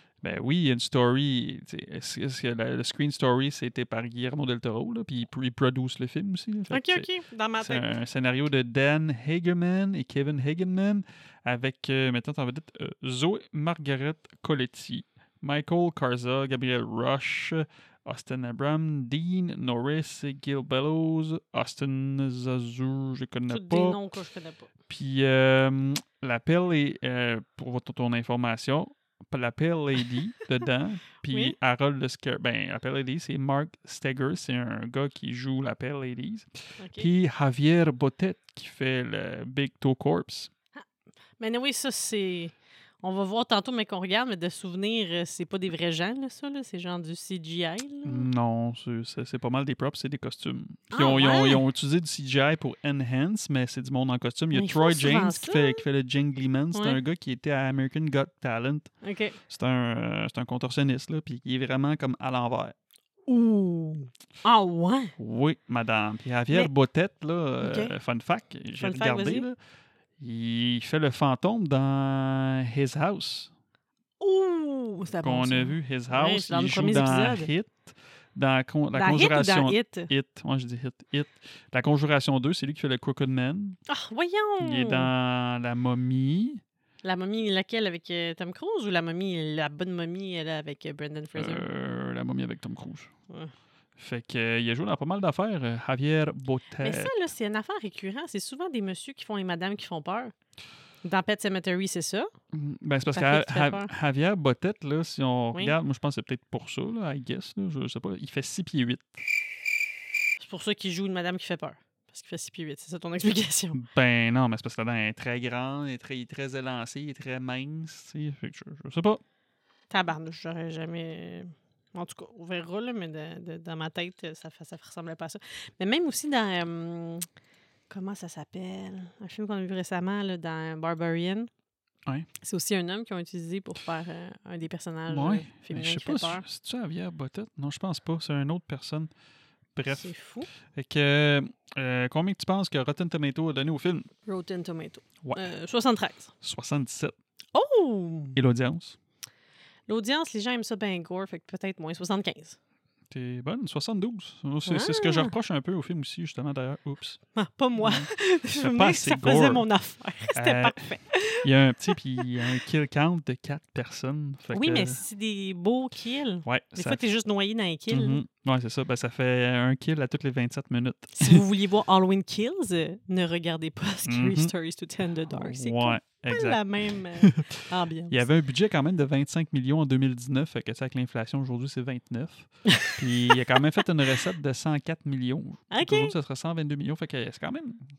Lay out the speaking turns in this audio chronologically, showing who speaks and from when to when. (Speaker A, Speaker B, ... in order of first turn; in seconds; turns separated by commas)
Speaker A: 0.2-7.1, Speaker B: 6.7-7.9, Speaker A: 7.6-24.0, Speaker B: 23.5-24.7, Speaker A: 24.9-40.5, Speaker B: 31.3-31.5, Speaker B: 36.8-37.1, Speaker B: 41.4-48.3, Speaker A: 48.0-58.9, Speaker B: 50.9-51.6, Speaker B: 54.5-55.9, Speaker B: 56.7-57.0, Speaker B: 59.0-59.4, Speaker A: 59.5-62.7, Speaker B: 63.3-65.2, Speaker A: 65.2-69.6, Speaker B: 67.6-67.9, Speaker B: 68.8-69.5, Speaker A: 70.2-73.5, Speaker B: 74.2-77.5, Speaker A: 75.2-83.8, Speaker B: 78.9-80.1, Speaker B: 83.9-85.1, Speaker A: 84.6-86.6, Speaker B: 87.0-91.7, Speaker A: 91.3-93.1, Speaker A: 94.0-97.1, Speaker B: 96.8-100.3, Speaker B: 101.0-102.3, Speaker A: 102.5-109.2, Speaker B: 103.1-103.9, Speaker B: 110.4-113.8, Speaker A: 113.7-119.2, Speaker B: 119.9-127.3, Speaker B: 127.9-131.5, Speaker B: 132.4-136.4, Speaker A: 135.1-139.1, Speaker A: 139.8-140.1, Speaker B: 139.9-140.5, Speaker A: 140.6-144.1, Speaker B: 144.3-146.3, Speaker A: 145.2-145.5, Speaker A: 146.4-147.2, Speaker B: 147.5-148.4, Speaker A: 148.4-149.0, Speaker B: 149.9-152.6, Speaker A: 153.1-157.2, Speaker B: 154.7-155.3, Speaker B: 157.3-162.2, Speaker A: 157.8-159.7, Speaker A: 160.3-165.0, Speaker B: 164.5-168.2, Speaker A: 166.4-167.0, Speaker A: 167.9-171.4, Speaker B: 171.2-178.3, Speaker A: 174.1-174.5, Speaker A: 175.3-187.8, Speaker B: 182.7-183.3, Speaker B: 185.7-186.2